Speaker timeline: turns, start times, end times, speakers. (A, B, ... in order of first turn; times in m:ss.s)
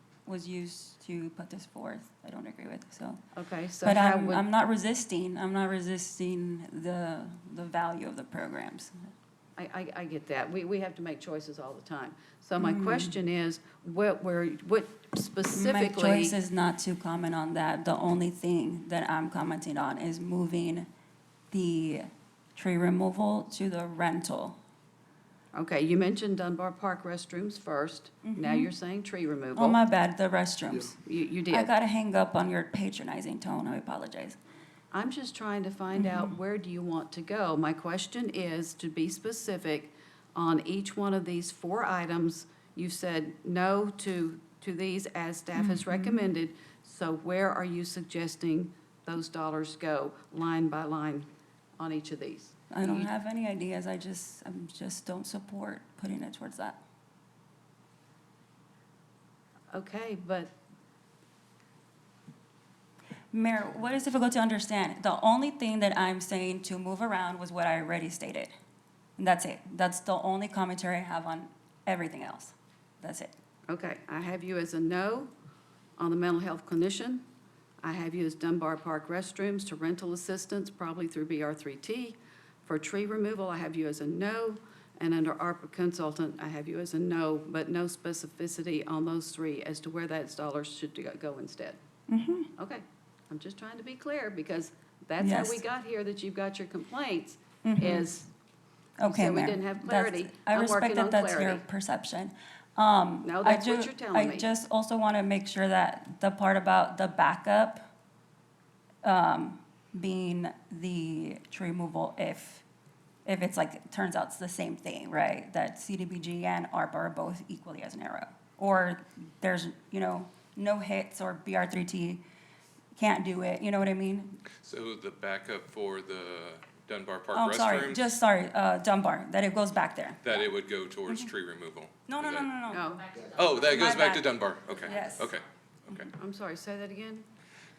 0:00.2-0:03.2 A
0:03.3-0:04.4 B
0:03.8-0:09.1 A
0:09.6-0:16.3 B
0:12.6-0:13.1 A
0:15.5-0:20.9 A
0:21.5-0:24.6 A
0:25.5-0:29.8 B
0:28.2-0:28.7 A
0:29.6-0:30.9 A
0:31.0-0:31.7 B
0:31.5-0:34.4 A
0:34.9-0:53.1 B
0:35.9-0:36.3 A
0:45.6-0:46.2 A
0:52.7-0:56.8 A
0:59.7-1:00.6 B
1:03.3-1:08.5 A
1:09.2-1:13.3 A
1:13.7-1:15.3 B
1:16.0-1:17.2 B
1:17.8-1:31.8 B
1:32.1-1:32.5 A
1:32.6-1:38.3 B
1:35.2-1:35.6 A
1:37.6-1:38.0 A
1:39.0-1:47.8 A
1:39.0-1:41.6 B
1:43.2-1:44.5 B
1:49.0-1:52.6 A
1:53.2-2:02.2 A
2:02.9-2:04.4 A
2:04.6-2:08.0 C
2:07.3-2:10.5 A
2:10.2-2:12.6 C
2:12.0-2:13.0 A
2:12.7-2:13.2 B
2:13.3-2:16.1 C
2:13.6-2:14.3 A
2:14.8-2:15.3 A
2:16.1-2:17.2 B